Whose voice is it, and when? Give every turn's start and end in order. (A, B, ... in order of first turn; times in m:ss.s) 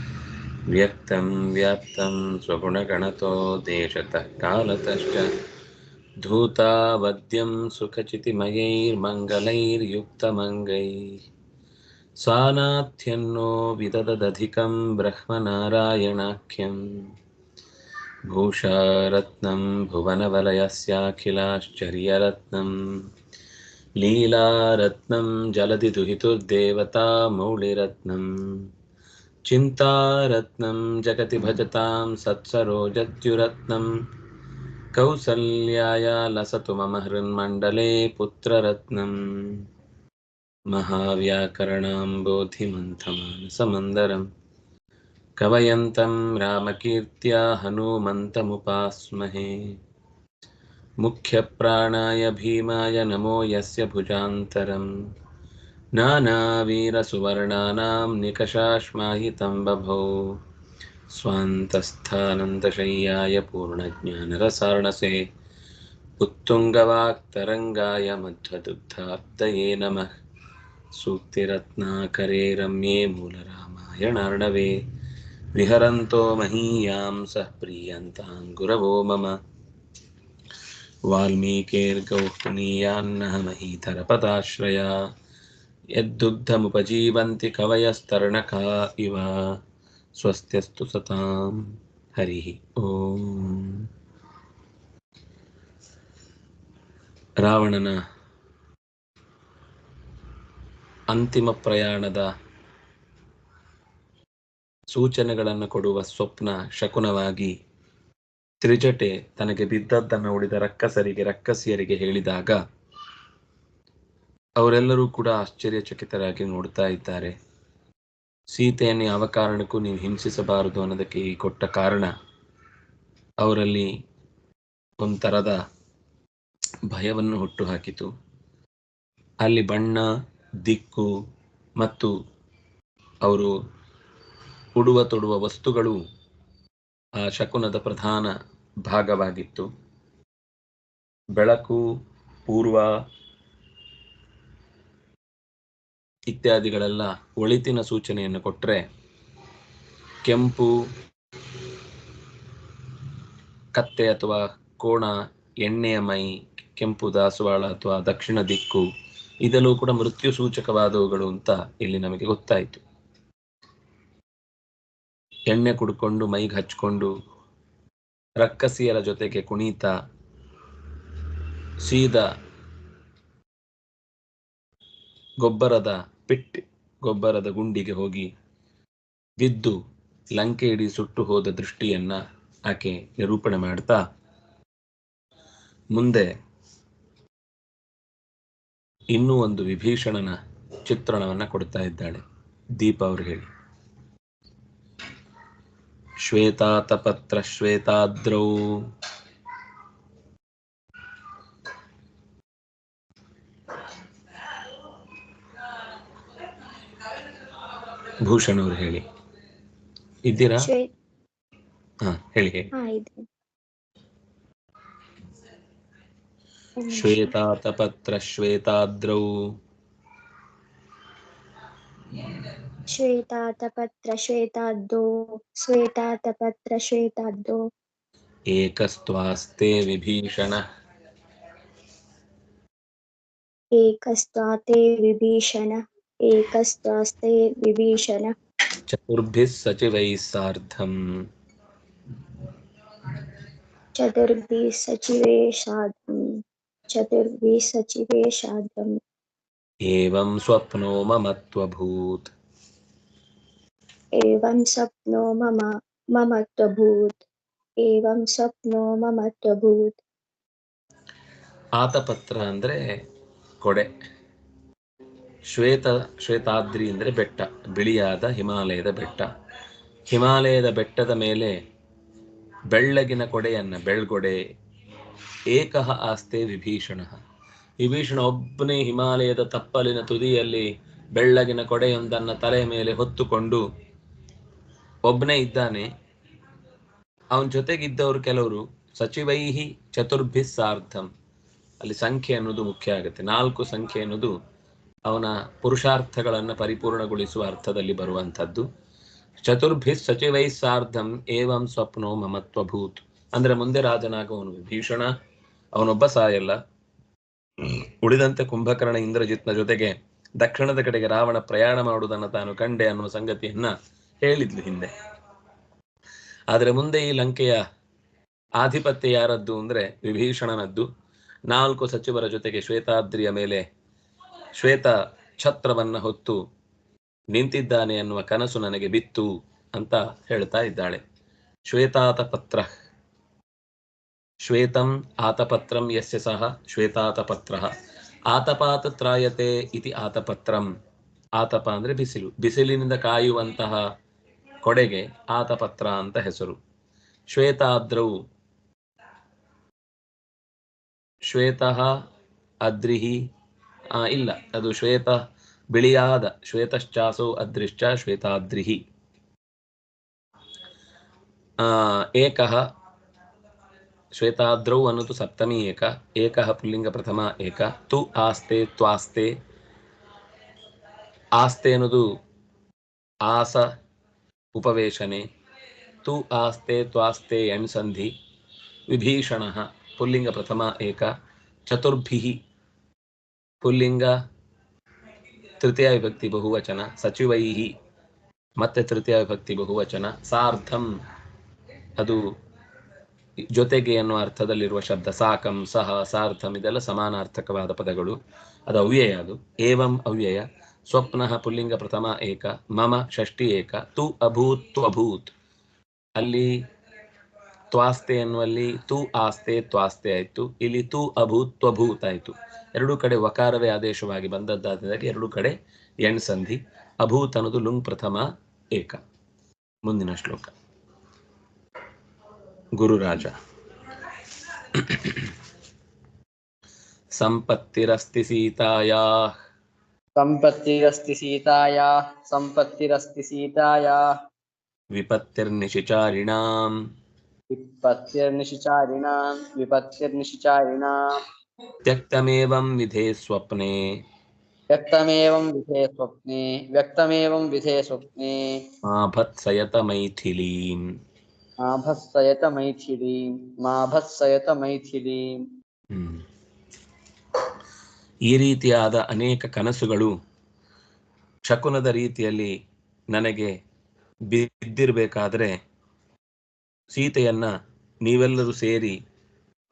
0:00.7-0:05.3 A
0:06.2-0:11.2 A
0:12.2-0:17.1 A
0:18.3-0:23.0 A
0:24.0-0:28.6 A
0:29.5-0:33.9 A
0:34.9-0:39.6 A
0:40.7-0:44.2 A
0:45.4-0:49.8 A
0:51.0-0:54.9 A
0:56.0-1:00.2 A
1:01.1-1:05.2 A
1:06.2-1:10.1 A
1:11.0-1:14.8 A
1:15.5-1:19.4 A
1:21.1-1:25.0 A
1:25.9-1:29.6 A
1:30.2-1:33.9 A
1:37.4-1:38.0 A
1:41.1-1:42.3 A
1:44.9-1:47.5 A
1:48.6-1:52.6 A
1:54.6-1:57.3 A
1:58.5-2:02.1 A
2:03.4-2:03.9 A
2:05.0-2:05.6 A
2:06.9-2:08.1 A
2:09.4-2:10.1 A
2:10.6-2:11.1 A
2:11.8-2:12.1 A
2:13.2-2:13.5 A
2:14.8-2:16.0 A
2:17.2-2:18.3 A
2:18.8-2:19.7 A
2:21.4-2:21.8 A
2:22.5-2:22.9 A
2:26.3-2:28.8 A
2:30.2-2:30.7 A
2:33.7-2:38.8 A
2:39.4-2:42.8 A
2:45.5-2:47.1 A
2:48.4-2:49.9 A
2:51.8-2:52.3 A
2:55.4-2:58.3 A
2:59.4-2:59.8 A
3:00.3-3:04.0 A
3:05.9-3:06.3 A
3:09.1-3:12.2 A
3:12.8-3:13.5 A
3:16.2-3:18.8 A
3:28.2-3:29.0 A
3:30.2-3:30.7 A
3:30.6-3:30.9 B
3:32.0-3:32.7 A
3:32.7-3:33.2 B
3:36.8-3:37.3 B
3:36.9-3:39.3 A
3:42.9-3:47.6 B
3:48.5-3:50.6 A
3:53.8-3:58.3 B
3:58.9-4:01.0 A
4:04.0-4:06.4 B
4:06.9-4:09.0 B
4:09.8-4:12.3 A
4:14.2-4:17.2 B
4:17.8-4:20.0 B
4:21.8-4:22.9 A
4:23.6-4:23.9 A
4:25.5-4:29.3 A
4:30.1-4:31.6 A
4:32.7-4:34.4 A
4:35.5-4:37.2 A
4:37.8-4:43.6 A
4:45.0-4:45.9 A
4:47.3-4:51.1 A
4:51.8-4:54.3 A
4:55.1-4:58.7 A
4:59.4-5:05.1 A
5:05.7-5:06.6 A
5:07.6-5:14.9 A
5:16.5-5:17.6 A
5:18.6-5:20.9 A
5:21.5-5:23.6 A
5:24.6-5:26.4 A
5:27.3-5:31.0 A
5:31.7-5:32.7 A
5:34.4-5:37.7 A
5:38.3-5:40.7 A
5:41.4-5:43.9 A
5:44.6-5:46.6 A
5:47.3-5:48.2 A
5:51.3-5:51.9 A
5:52.6-5:53.2 A
5:53.9-5:55.2 A
5:55.7-5:58.8 A
6:01.6-6:02.6 A
6:04.2-6:09.3 A
6:11.4-6:12.1 A
6:13.2-6:13.7 A
6:14.5-6:15.2 A
6:16.0-6:18.1 A
6:18.9-6:21.1 A
6:21.7-6:22.4 A
6:23.6-6:24.2 A
6:25.6-6:27.7 A
6:28.6-6:30.9 A
6:32.0-6:32.3 A
6:33.5-6:45.3 A
6:46.2-6:46.6 A
6:47.7-6:59.0 A
6:59.8-7:00.5 A
7:02.8-7:03.4 A
7:04.7-7:05.2 A
7:07.2-7:09.3 A
7:10.2-7:14.0 C
7:14.9-7:16.8 A
7:17.5-7:21.0 C
7:21.8-7:24.0 A
7:24.7-7:28.7 C
7:28.8-7:30.9 A
7:31.6-7:35.3 C
7:35.9-7:36.2 A
7:38.3-7:40.1 A
7:41.5-7:42.5 A
7:43.1-7:43.5 A
7:44.3-7:45.6 A
7:46.9-7:47.5 A
7:48.0-7:49.0 A